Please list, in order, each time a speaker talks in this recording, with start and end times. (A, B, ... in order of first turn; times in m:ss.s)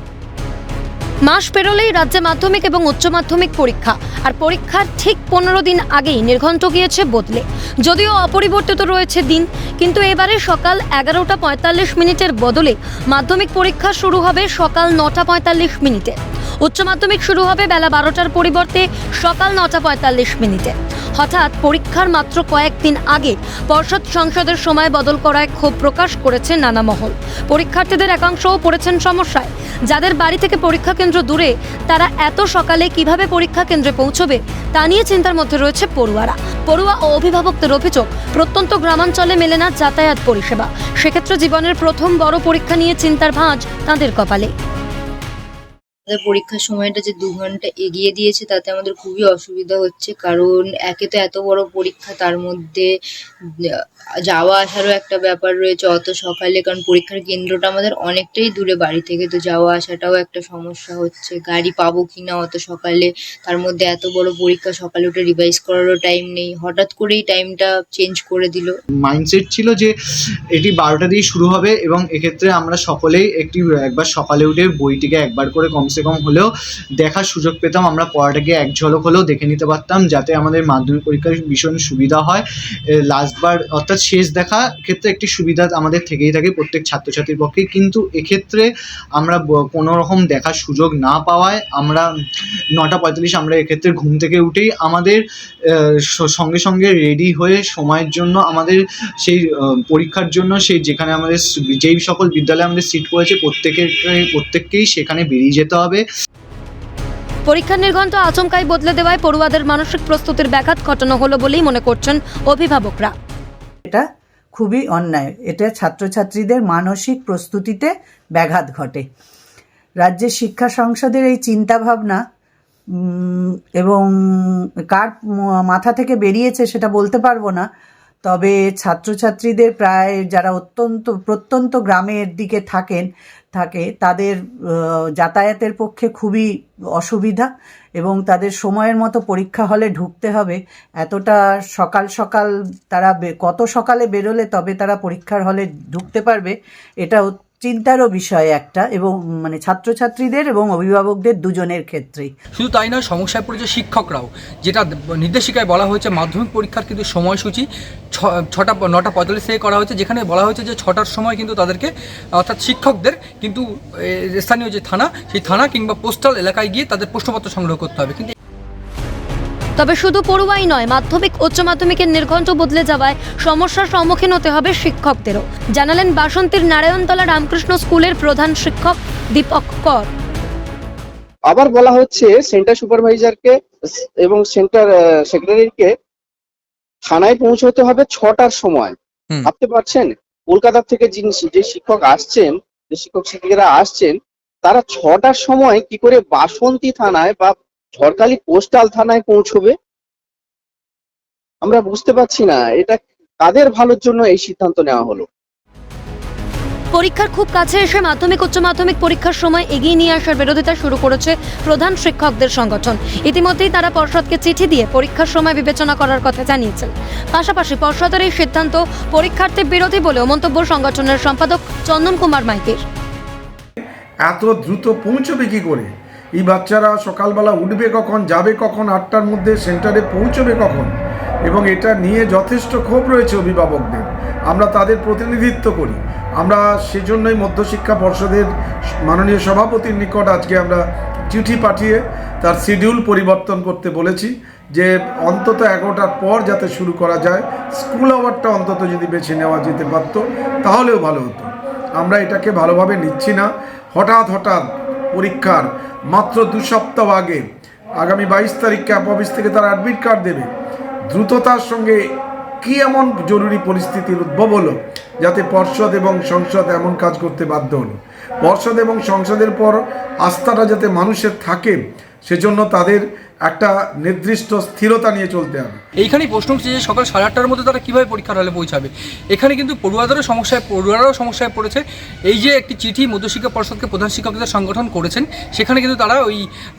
0:01.3-0:44.5 A
0:46.1-0:52.9 B
0:53.6-1:08.7 B
1:09.0-1:09.9 C
1:10.5-1:16.5 C
1:17.0-1:22.4 C
1:23.1-1:28.6 C
1:29.2-1:32.1 C
1:32.8-1:35.2 C
1:36.2-1:46.0 C
1:47.5-1:53.1 A
1:53.8-1:59.0 D
2:00.0-2:02.2 D
2:03.0-2:07.6 D
2:08.2-2:16.5 D
2:17.0-2:17.5 D
2:18.0-2:32.3 D
2:32.5-2:48.3 E
2:49.8-3:00.1 A
3:01.5-3:05.9 F
3:07.1-3:19.7 F
3:21.6-3:25.3 F
3:26.9-3:42.8 A
3:44.2-3:50.9 G
3:51.5-3:58.5 G
3:59.0-4:17.4 G
4:18.0-4:20.5 G
4:21.1-4:22.0 G
4:22.6-4:35.8 G
4:36.0-4:46.4 E